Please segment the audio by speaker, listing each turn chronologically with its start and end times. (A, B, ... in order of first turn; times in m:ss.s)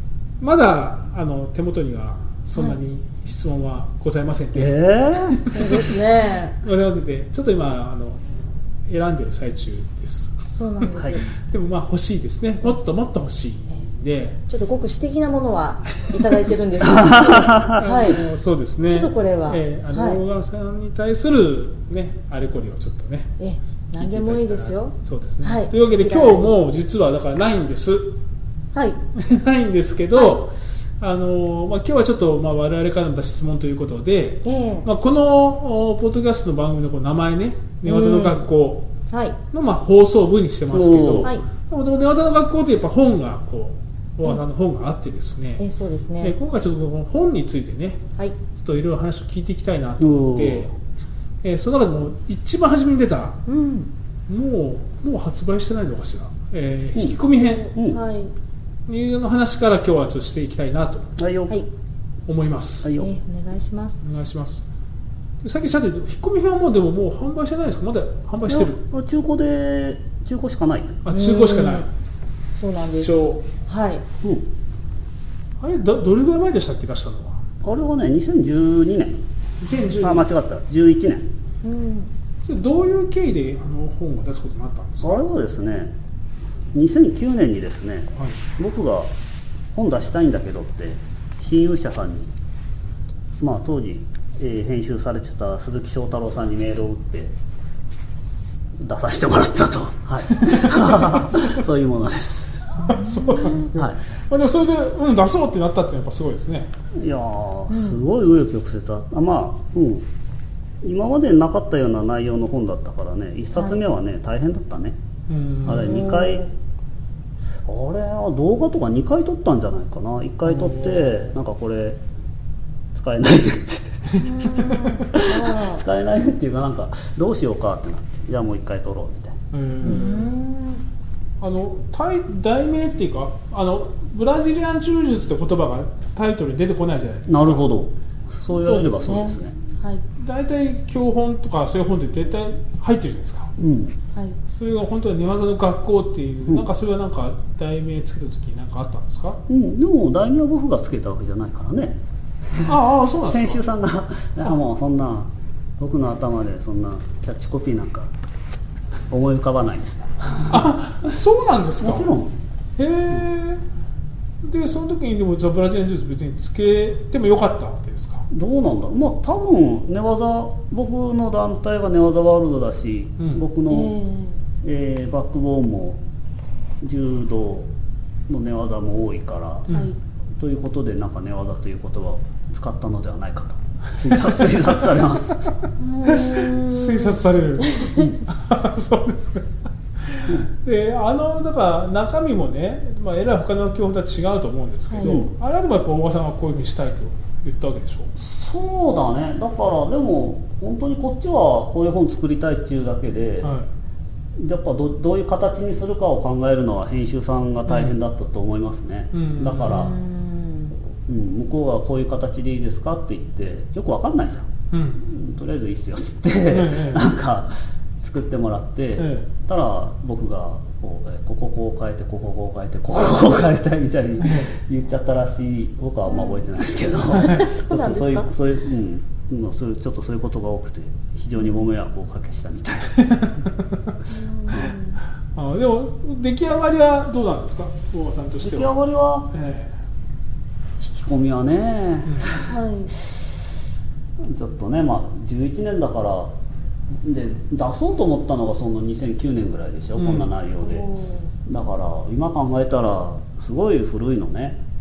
0:00.4-0:04.7 A
0:04.5-0:05.4 B
0:05.3-0:05.9 A
0:05.4-0:06.6 C
0:06.6-0:08.3 A
0:08.8-0:10.4 A
0:10.6-0:11.3 C
0:10.9-0:11.2 B
0:11.2-0:14.4 A
0:14.5-0:18.2 C
0:16.8-0:17.8 B
0:17.7-0:23.3 A
0:18.8-0:20.2 C
0:23.4-0:26.4 C
0:24.0-0:28.2 A
0:28.7-0:29.0 C
0:29.1-0:38.9 A
0:34.4-0:34.9 C
0:37.8-0:38.4 C
0:39.1-0:39.4 C
0:39.5-0:45.6 A
0:40.7-0:41.3 B
0:45.6-0:46.3 C
0:46.2-0:50.7 A
0:50.0-0:50.7 B
0:51.4-0:53.4 A
0:53.5-0:53.9 C
0:54.3-0:57.7 A
0:56.9-0:57.2 B
0:57.3-0:58.3 C
0:57.8-0:58.0 B
0:58.9-1:01.1 A
1:01.2-1:01.6 B
1:02.3-1:02.9 A
1:02.8-1:03.1 B
1:02.9-1:04.0 C
1:04.0-1:04.6 A
1:05.4-1:08.8 A
1:08.5-1:11.0 B
1:11.0-1:11.9 A
1:11.1-1:11.9 C
1:12.6-1:14.0 C
1:12.8-1:13.4 A
1:15.6-1:17.4 A
1:17.6-1:19.2 B
1:19.6-1:20.3 A
1:19.8-1:21.3 B
1:21.6-1:22.1 C
1:22.4-1:25.2 A
1:25.0-1:25.9 B
1:26.7-1:29.1 B
1:29.7-1:32.3 B
1:33.4-1:37.3 B
1:38.8-1:42.7 B
1:40.3-1:41.6 A
1:42.8-1:46.7 A
1:43.1-1:43.6 C
1:46.9-1:50.1 B
1:47.7-1:48.0 C
1:50.8-1:55.0 B
1:55.3-1:56.0 A
1:55.6-1:56.4 B
1:55.7-1:56.5 C
1:57.6-2:02.0 B
2:00.4-2:01.3 A
2:02.9-2:10.1 B
2:04.1-2:04.9 A
2:04.2-2:05.8 C
2:09.5-2:10.4 A
2:09.8-2:10.8 C
2:11.4-2:17.7 A
2:17.3-2:19.5 B
2:18.6-2:20.0 C
2:18.6-2:19.0 A
2:20.2-2:23.5 A
2:23.6-2:24.0 B
2:24.5-2:29.4 A
2:29.5-2:32.0 B
2:32.5-2:38.1 B
2:32.6-2:33.6 A
2:39.1-2:40.7 B
2:40.5-2:42.1 A
2:41.8-2:42.3 B
2:42.8-2:43.6 A
2:44.4-2:48.3 A
2:48.3-2:54.0 B
2:53.2-2:53.4 A
2:53.7-2:54.4 C
2:54.6-2:56.0 B
2:56.8-2:57.7 B
2:58.3-2:59.6 B
2:59.7-2:59.9 A
2:59.7-3:00.0 C
3:00.4-3:05.5 B
3:05.8-3:08.1 C
3:06.0-3:09.5 A
3:10.0-3:18.1 A
3:14.9-3:15.2 C
3:15.0-3:15.3 B
3:18.2-3:23.5 B
3:23.4-3:23.7 A
3:24.4-3:29.9 B
3:27.7-3:28.0 A
3:29.1-3:29.9 A
3:29.7-3:30.8 C
3:31.1-3:53.1 B
3:34.7-3:35.1 A
3:36.5-3:37.1 A
3:39.0-3:39.3 A
3:44.2-3:44.5 A
3:46.0-3:46.4 C
3:47.1-3:48.3 C
3:53.0-3:54.0 A
3:54.1-3:55.0 C
3:55.3-3:58.8 A
3:58.4-3:59.3 B
3:59.3-3:59.8 A
4:00.8-4:02.4 B
4:02.0-4:02.4 A
4:02.3-4:02.9 C
4:04.2-4:06.3 B
4:07.0-4:10.9 B
4:10.0-4:10.3 A
4:10.6-4:11.3 C
4:11.4-4:14.6 B